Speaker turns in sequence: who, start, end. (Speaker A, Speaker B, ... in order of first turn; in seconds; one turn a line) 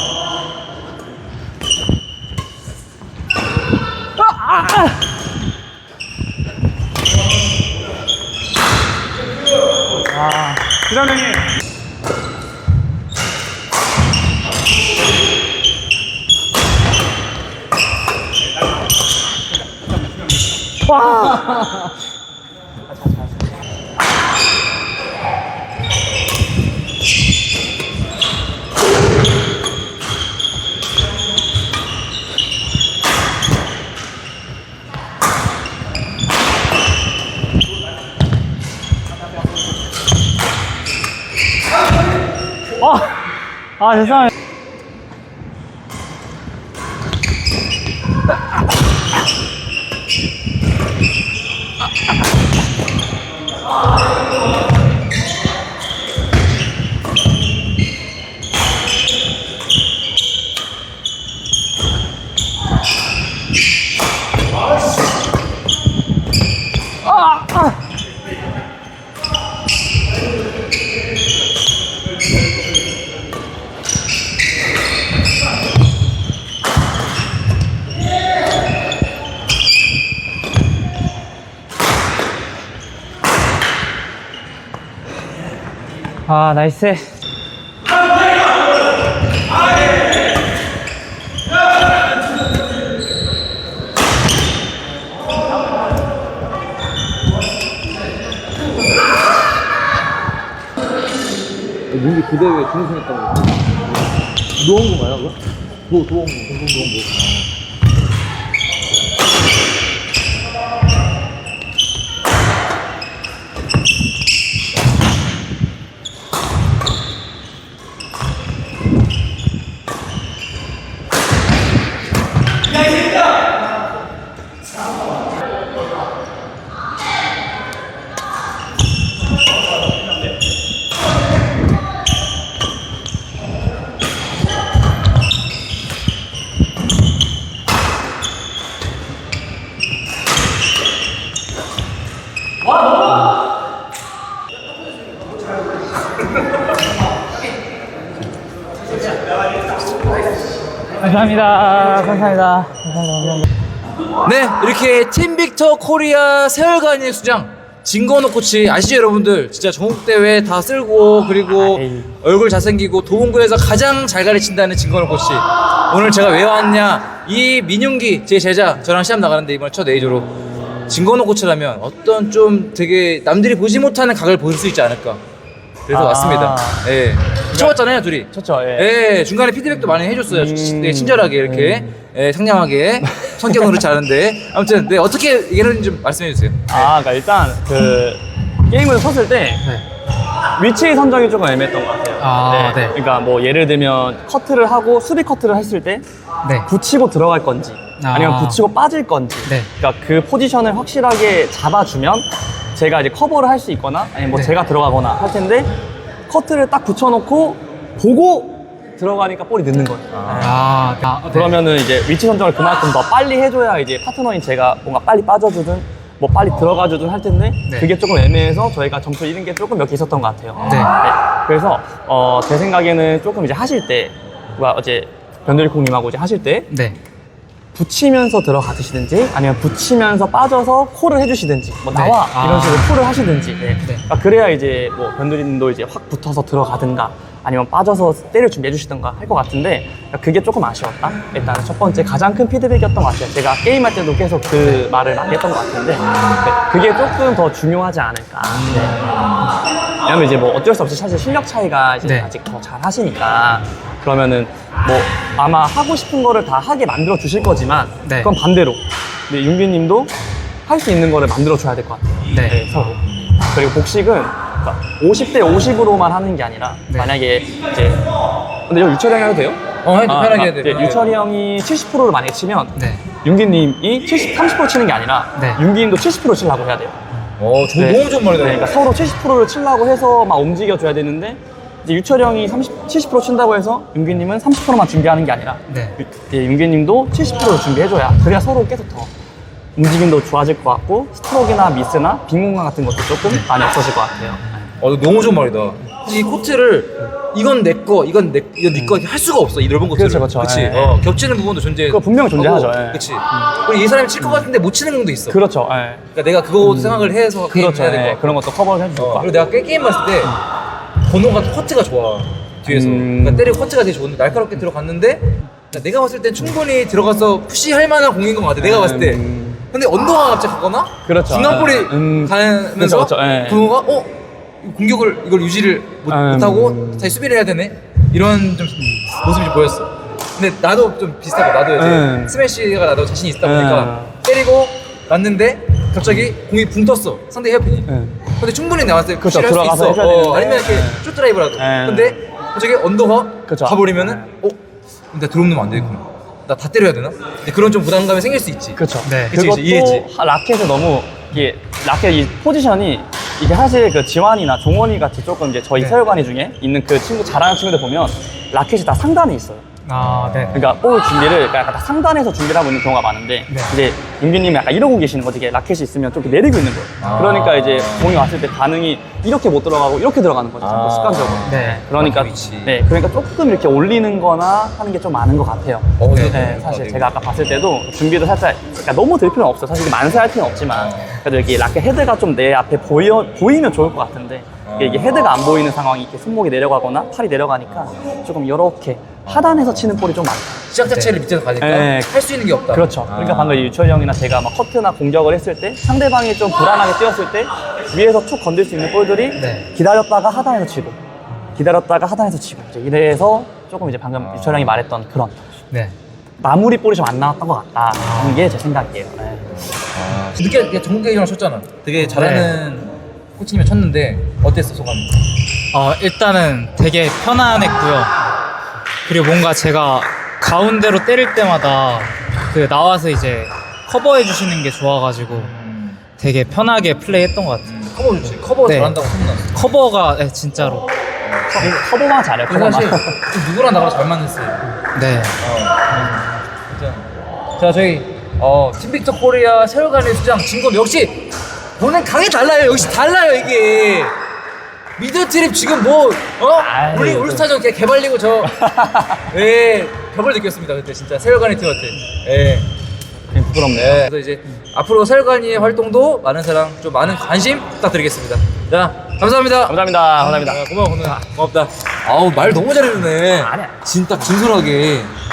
Speaker A: 20.9-21.6
Speaker A: 42.8-43.1
Speaker A: 43.8-44.3
Speaker A: 86.2-87.1
Speaker B: 101.9-103.8
Speaker B: 104.5-107.5
Speaker A: 151.0-153.4
Speaker B: 154.2-170.3
Speaker C: 161.6-162.1
Speaker B: 170.9-175.2
Speaker B: 175.9-186.9
Speaker C: 175.9-176.8
Speaker C: 178.3-178.9
Speaker C: 180.3-182.0
Speaker C: 186.7-189.7
Speaker C: 190.6-196.0
Speaker A: 192.2-192.9
Speaker C: 196.6-205.7
Speaker A: 198.0-198.6
Speaker C: 206.3-210.5
Speaker B: 210.1-210.7
Speaker A: 210.4-211.6
Speaker C: 211.3-226.7
Speaker B: 220.6-220.9
Speaker A: 220.7-220.9
Speaker A: 226.7-227.0
Speaker C: 227.7-249.2
Speaker A: 231.9-232.9
Speaker B: 246.0-246.5
Speaker B: 248.5-249.5
Speaker C: 250.0-268.0
Speaker A: 252.0-252.3
Speaker A: 258.0-258.3
Speaker A: 262.3-262.6
Speaker C: 268.7-277.0
Speaker B: 269.8-271.2
Speaker A: 272.8-273.0
Speaker A: 275.3-275.6
Speaker B: 277.4-278.7
Speaker C: 277.8-289.1
Speaker A: 285.7-286.0
Speaker C: 289.8-294.7
Speaker B: 294.8-305.4
Speaker C: 298.7-299.0
Speaker C: 299.9-301.1
Speaker C: 301.9-303.5
Speaker C: 304.2-304.5
Speaker C: 305.3-306.1
Speaker B: 306.1-308.4
Speaker C: 306.6-309.4
Speaker B: 308.9-310.4
Speaker B: 311.0-344.6
Speaker C: 312.6-313.5
Speaker C: 318.6-319.6
Speaker C: 321.0-323.7
Speaker C: 326.1-327.1
Speaker C: 331.8-332.4
Speaker C: 333.4-334.2
Speaker C: 337.9-338.2
Speaker C: 339.2-341.0
Speaker C: 341.6-342.2
Speaker C: 343.5-344.2
Speaker B: 345.1-348.8
Speaker C: 348.8-359.6
Speaker A: 349.0-349.4
Speaker B: 349.3-350.1
Speaker A: 359.9-360.7
Speaker B: 360.0-360.7
Speaker C: 360.5-390.6
Speaker A: 363.5-363.8
Speaker B: 367.0-368.2
Speaker B: 370.6-372.8
Speaker A: 371.4-371.8
Speaker B: 376.0-377.1
Speaker B: 380.7-381.2
Speaker B: 384.6-385.3
Speaker B: 389.2-389.8
Speaker B: 390.7-393.8
Speaker C: 391.6-392.1
Speaker C: 392.7-401.0
Speaker A: 399.4-399.7
Speaker C: 401.5-405.4
Speaker B: 404.2-404.7
Speaker C: 406.4-409.5
Speaker A: 408.0-408.6
Speaker B: 409.8-415.1
Speaker A: 412.0-412.6
Speaker A: 415.7-418.2
Speaker A: 419.0-425.5
Speaker B: 425.3-426.0
Speaker A: 426.2-427.7
Speaker B: 427.6-429.6
Speaker A: 428.6-429.0
Speaker A: 429.5-430.9
Speaker B: 431.2-431.7
Speaker C: 431.5-433.2
Speaker B: 432.5-434.7
Speaker A: 434.9-435.4
Speaker B: 435.4-441.1
Speaker B: 441.8-444.2
Speaker B: 445.0-448.6
Speaker C: 446.6-447.5
Speaker C: 448.6-449.2
Speaker B: 449.3-452.7
Speaker C: 453.3-454.1
Speaker B: 453.7-465.1
Speaker C: 459.7-461.3
Speaker C: 463.3-463.8